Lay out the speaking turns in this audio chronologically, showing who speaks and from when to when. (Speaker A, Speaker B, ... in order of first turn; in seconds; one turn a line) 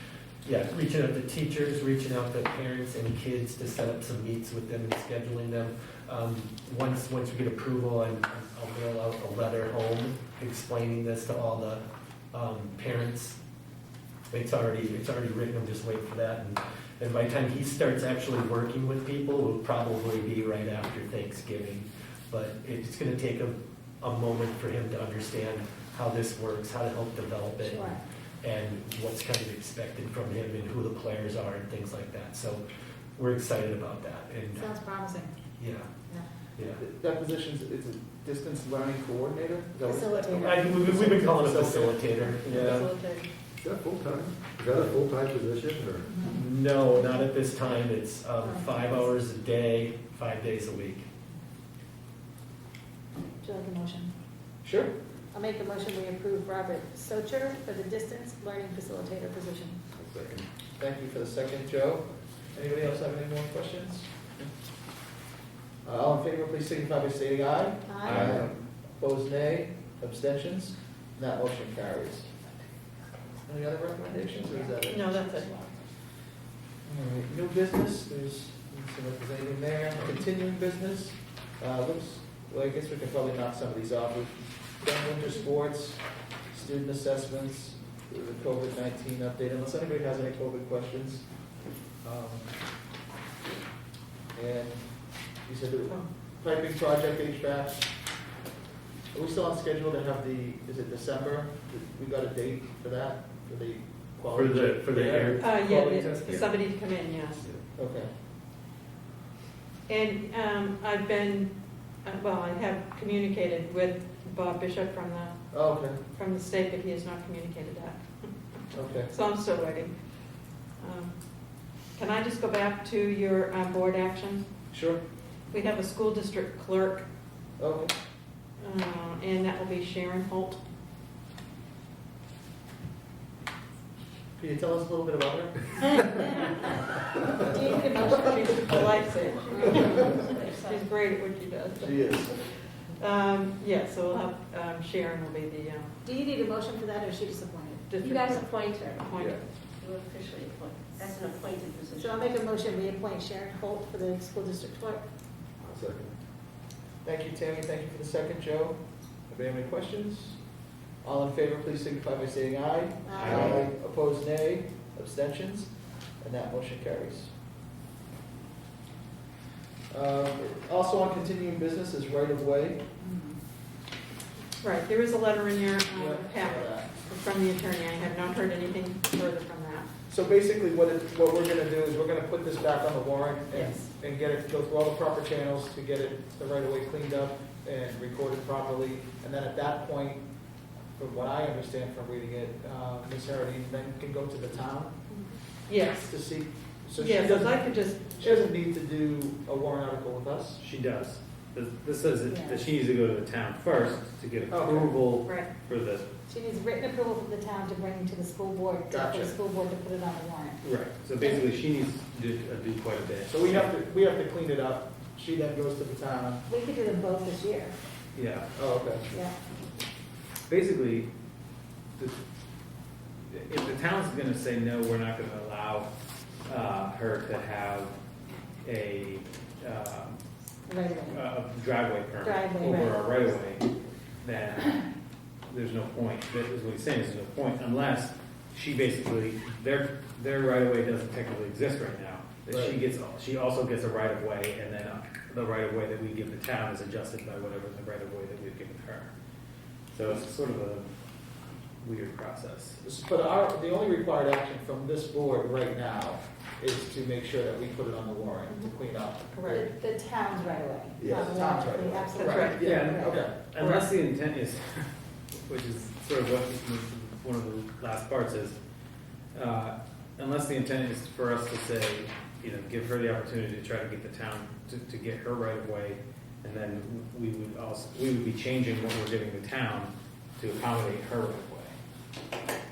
Speaker A: 0.4-13.4
Speaker A: 14.3-32.6
Speaker B: 27.6-28.0
Speaker A: 33.2-34.7
Speaker B: 34.5-35.3
Speaker A: 35.6-35.9
Speaker C: 36.6-42.0
Speaker B: 39.8-41.1
Speaker A: 40.3-42.9
Speaker D: 42.5-43.3
Speaker E: 43.6-46.1
Speaker B: 46.0-46.4
Speaker A: 46.3-51.1
Speaker B: 48.4-49.1
Speaker B: 53.4-54.1
Speaker C: 54.6-54.9
Speaker B: 55.3-59.8
Speaker C: 60.8-64.5
Speaker C: 65.8-72.3
Speaker B: 67.9-68.3
Speaker C: 73.5-75.1
Speaker B: 74.1-75.9
Speaker D: 74.9-75.5
Speaker C: 76.8-91.3
Speaker C: 92.0-92.5
Speaker C: 94.3-97.9
Speaker C: 99.1-105.7
Speaker A: 104.3-106.4
Speaker D: 105.4-107.5
Speaker C: 107.7-108.1
Speaker D: 109.9-111.5
Speaker D: 112.0-115.4
Speaker C: 115.5-116.0
Speaker D: 116.1-119.9
Speaker C: 118.7-119.1
Speaker D: 120.8-121.1
Speaker D: 122.0-124.5
Speaker C: 124.7-125.0
Speaker D: 125.5-127.1
Speaker C: 127.6-127.9
Speaker D: 128.6-130.6
Speaker C: 134.4-136.5
Speaker B: 137.4-138.7
Speaker D: 138.3-145.9
Speaker F: 139.3-140.9
Speaker C: 141.8-142.3
Speaker B: 146.0-147.9
Speaker D: 147.9-149.4
Speaker F: 148.0-149.2
Speaker F: 149.8-152.3
Speaker B: 151.9-155.0
Speaker E: 155.6-156.1
Speaker C: 157.0-160.4
Speaker C: 161.0-167.3
Speaker B: 163.1-163.6
Speaker G: 163.2-163.5
Speaker E: 163.3-163.6
Speaker C: 169.9-172.8
Speaker B: 173.0-173.3
Speaker D: 174.6-179.9
Speaker C: 175.9-176.9
Speaker C: 180.1-190.2
Speaker D: 183.5-183.9
Speaker C: 190.9-194.9
Speaker D: 195.1-196.1
Speaker C: 196.1-200.6
Speaker D: 197.0-198.2
Speaker G: 200.6-206.1
Speaker B: 202.3-202.6
Speaker C: 204.5-205.0
Speaker D: 205.2-205.5
Speaker B: 206.3-210.6
Speaker C: 208.9-209.3
Speaker G: 210.6-213.7
Speaker C: 213.3-216.4
Speaker B: 216.5-217.8
Speaker G: 218.2-218.5
Speaker C: 218.6-219.1
Speaker B: 219.1-219.3
Speaker G: 220.5-221.1
Speaker G: 223.3-225.9
Speaker G: 226.5-228.0
Speaker G: 228.6-230.2
Speaker B: 230.7-231.2
Speaker G: 231.0-233.7
Speaker B: 232.2-233.2
Speaker G: 234.2-234.8
Speaker G: 235.5-249.1
Speaker C: 242.5-242.8
Speaker G: 249.9-250.9
Speaker G: 251.8-252.8
Speaker C: 252.8-259.6
Speaker D: 259.3-259.7
Speaker B: 259.5-263.2
Speaker C: 261.0-263.4
Speaker D: 262.1-262.6
Speaker G: 262.6-264.9
Speaker D: 263.6-263.9
Speaker G: 265.4-268.6
Speaker G: 269.3-281.8